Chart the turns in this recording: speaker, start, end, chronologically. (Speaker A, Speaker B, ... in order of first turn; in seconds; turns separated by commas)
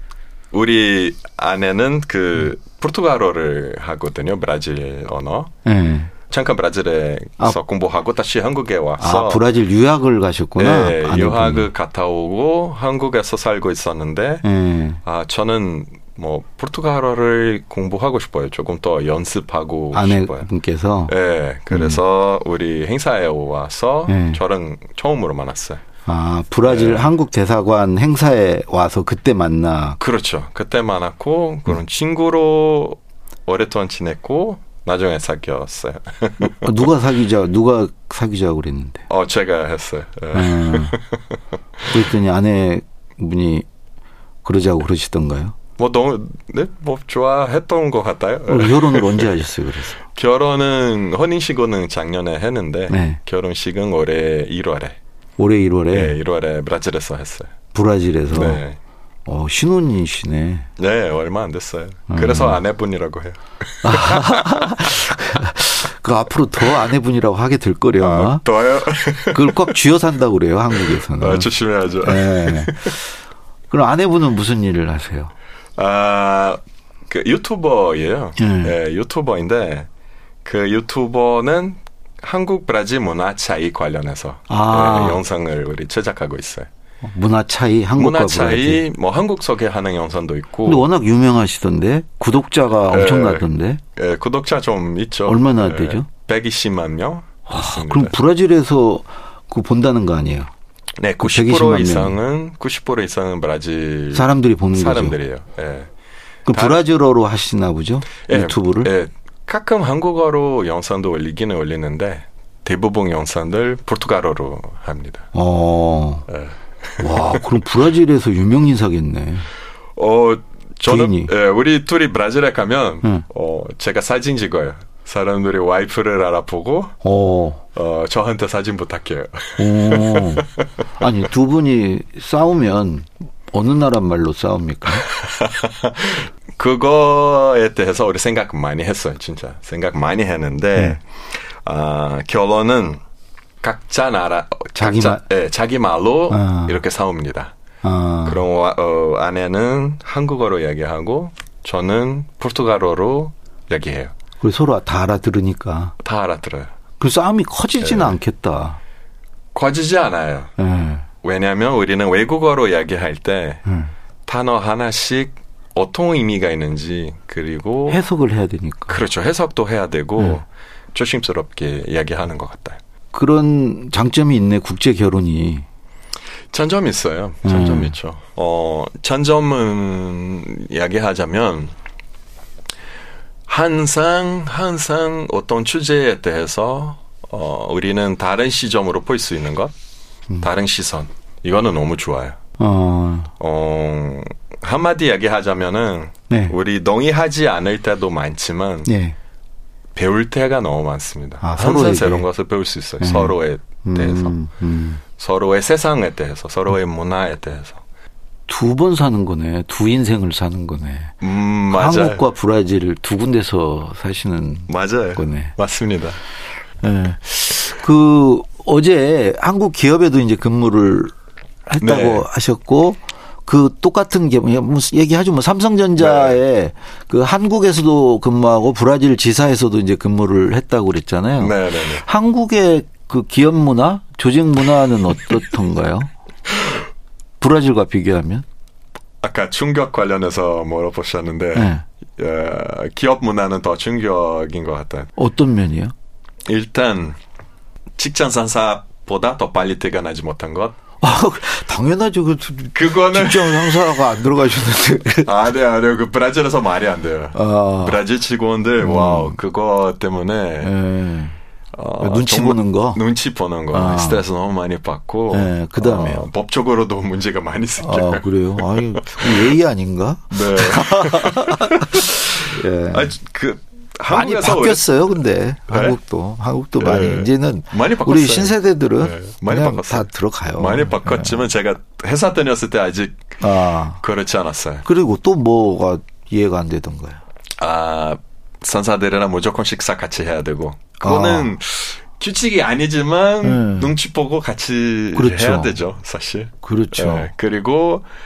Speaker A: 0.5-5.5, Speaker B: 5.7-6.1, Speaker A: 6.3-9.4, Speaker B: 9.0-11.7, Speaker A: 10.6-14.4, Speaker B: 14.4-15.0, Speaker A: 15.0-20.5, Speaker B: 19.9-21.1, Speaker A: 21.1-25.8, Speaker B: 21.7-22.0, Speaker B: 24.1-24.4, Speaker B: 26.1-30.0, Speaker A: 26.7-27.1, Speaker A: 30.0-36.7, Speaker B: 36.4-39.0, Speaker A: 39.1-41.2, Speaker B: 40.3-41.0, Speaker B: 41.9-43.7, Speaker B: 44.4-45.6, Speaker A: 45.8-49.3, Speaker B: 48.5-50.0, Speaker A: 50.1-55.0, Speaker B: 52.9-53.2, Speaker B: 55.4-56.2, Speaker A: 55.9-57.5, Speaker B: 57.7-58.6, Speaker A: 58.3-58.8, Speaker B: 59.2-60.7, Speaker A: 60.8-65.1, Speaker B: 62.1-62.6, Speaker B: 63.8-68.4, Speaker A: 68.0-69.8, Speaker B: 69.3-71.5, Speaker A: 70.8-72.9, Speaker B: 72.0-73.0, Speaker B: 73.7-75.3, Speaker A: 75.8-79.9, Speaker B: 78.4-78.8, Speaker A: 80.4-86.7, Speaker B: 84.5-85.2, Speaker B: 87.0-88.8, Speaker A: 88.0-90.9, Speaker B: 90.7-93.8, Speaker A: 92.9-98.2, Speaker B: 95.2-96.1, Speaker B: 97.5-100.5, Speaker A: 101.0-105.9, Speaker B: 101.2-102.2, Speaker B: 104.1-105.2, Speaker B: 106.5-108.9, Speaker A: 106.5-106.8, Speaker A: 108.3-115.3, Speaker B: 115.3-116.3, Speaker A: 116.3-117.4, Speaker B: 117.0-119.5, Speaker A: 120.0-127.0, Speaker B: 120.9-121.3, Speaker B: 127.0-127.6, Speaker A: 127.8-130.6, Speaker B: 129.6-135.1, Speaker A: 135.2-141.0, Speaker A: 141.6-143.0, Speaker A: 143.6-147.5, Speaker B: 144.8-145.2, Speaker B: 146.3-146.8, Speaker B: 147.8-148.4, Speaker A: 148.2-154.1, Speaker B: 154.4-155.9, Speaker A: 156.0-156.7, Speaker B: 157.0-158.8, Speaker A: 157.8-158.2, Speaker A: 159.5-160.5, Speaker B: 160.6-161.1, Speaker A: 161.2-163.6, Speaker B: 163.7-163.9, Speaker A: 164.2-168.0, Speaker B: 167.9-169.0, Speaker A: 168.9-172.8, Speaker B: 173.1-175.7, Speaker A: 176.5-181.7, Speaker B: 177.4-177.9, Speaker A: 183.5-189.7, Speaker A: 190.4-192.4, Speaker B: 192.6-193.3, Speaker A: 193.4-198.9, Speaker B: 196.3-196.6, Speaker B: 198.9-199.2, Speaker A: 199.9-204.3, Speaker B: 201.4-202.2, Speaker B: 203.0-205.0, Speaker A: 205.2-207.8, Speaker B: 208.5-211.2, Speaker A: 211.2-212.2, Speaker B: 211.7-215.5, Speaker A: 214.7-216.2, Speaker B: 216.8-221.1, Speaker B: 221.7-236.1, Speaker A: 221.8-222.2, Speaker A: 226.0-226.4, Speaker A: 231.4-232.1, Speaker B: 237.4-238.4, Speaker A: 239.2-245.1, Speaker B: 241.5-241.8, Speaker B: 245.2-245.9, Speaker A: 246.5-247.2, Speaker A: 248.0-250.8, Speaker B: 251.0-255.3, Speaker A: 252.7-254.1, Speaker A: 255.2-260.7, Speaker B: 257.3-258.0, Speaker B: 258.8-259.4, Speaker B: 260.6-261.4, Speaker A: 261.7-269.5, Speaker B: 262.0-263.0, Speaker B: 263.7-264.2, Speaker B: 265.3-266.2, Speaker B: 267.8-273.1, Speaker A: 270.3-274.9, Speaker B: 274.1-281.4, Speaker A: 275.7-276.0, Speaker A: 276.8-283.4, Speaker B: 283.4-284.0, Speaker A: 284.0-284.9, Speaker B: 284.9-287.2, Speaker A: 287.6-298.1, Speaker B: 291.0-291.5, Speaker B: 293.4-293.9, Speaker B: 295.1-295.8, Speaker B: 296.6-297.3